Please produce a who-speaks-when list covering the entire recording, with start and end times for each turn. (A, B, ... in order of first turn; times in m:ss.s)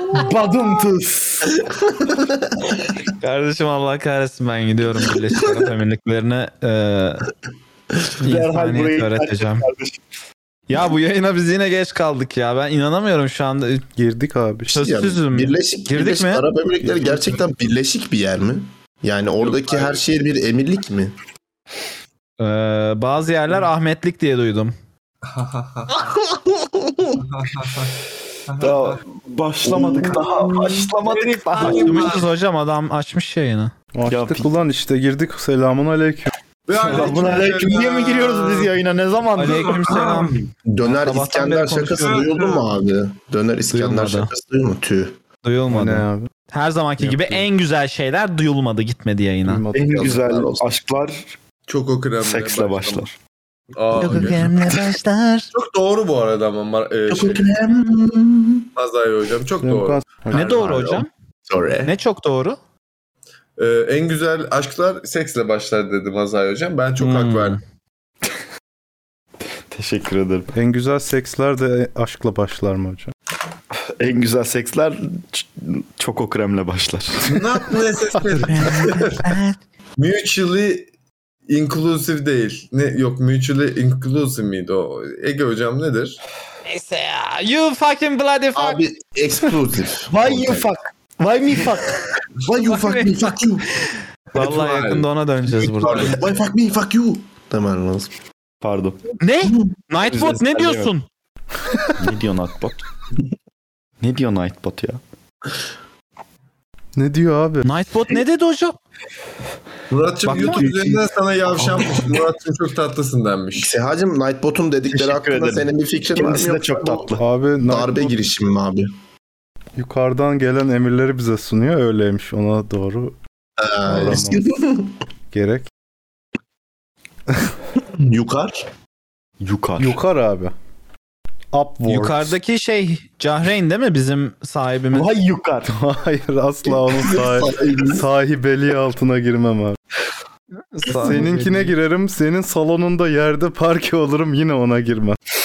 0:00.1-0:01.5 A
0:02.0-0:02.3 B
0:03.2-0:07.2 C
0:08.2-0:09.6 C
0:08.2-0:10.0 A
0:10.7-0:13.8 C
0:14.0-0:14.8 D
0:14.7-0:16.4 C
0:14.7-0:21.1 B
0:19.4-0:20.0 E
0:22.4-0:24.7 C
0:25.3-0:25.9 E
0:26.0-0:27.1 B
0:27.2-0:27.9 E
0:28.5-0:28.9 E
0:28.6-0:32.2 A
0:29.6-0:30.9 B
0:31.0-0:32.3 E
0:31.6-0:33.7 C
0:33.9-0:36.3 D
0:34.1-0:34.5 A
0:36.6-0:38.8 E
0:36.7-0:40.2 A
0:39.4-0:42.2 C
0:39.5-0:40.3 E
0:40.6-0:45.2 B
0:41.9-0:42.7 E
0:43.7-0:44.3 C
0:45.4-0:49.6 C
0:45.7-0:46.3 D
0:47.0-0:47.4 D
0:49.4-0:50.1 D
0:49.7-0:51.4 A
0:49.8-0:50.6 B
0:51.7-0:53.0 E
0:52.2-0:53.2 A
0:53.7-0:54.7 E
0:54.0-0:55.0 C
0:54.1-0:54.9 A
0:55.5-0:57.5 E
0:57.1-0:58.7 B
0:58.8-1:01.0 E
0:59.6-1:00.7 D
1:00.3-1:01.1 C
1:01.5-1:01.9 B
1:01.8-1:02.6 C
1:03.6-1:07.6 E
1:07.0-1:07.6 C
1:09.7-1:10.5 A
1:10.5-1:13.1 D
1:14.0-1:17.4 A
1:17.2-1:19.2 E
1:20.0-1:20.9 E
1:21.5-1:26.2 E
1:26.7-1:28.8 C
1:28.5-1:30.7 B
1:30.1-1:32.0 A
1:32.4-1:33.6 B
1:32.6-1:36.2 C
1:34.3-1:36.2 E
1:36.0-1:38.1 B
1:38.6-1:39.0 A
1:39.2-1:41.0 C
1:40.1-1:40.9 A
1:42.0-1:42.8 A
1:44.0-1:45.0 A
1:47.0-1:47.6 D
1:47.6-1:48.8 C
1:49.9-1:53.8 E
1:50.2-1:50.7 C
1:50.3-1:51.1 A
1:51.6-1:51.9 A
1:53.6-1:58.9 B
1:54.9-1:57.2 A
1:57.2-1:58.1 D
1:59.8-2:03.2 D
2:03.6-2:04.9 B
2:03.8-2:04.4 D
2:05.3-2:05.7 D
2:07.9-2:08.6 B
2:09.4-2:10.0 A
2:09.8-2:10.5 D
2:11.5-2:12.4 D
2:11.9-2:15.1 C
2:14.9-2:15.7 A
2:15.6-2:19.8 D
2:16.6-2:18.0 B
2:20.7-2:21.7 C
2:20.9-2:25.2 D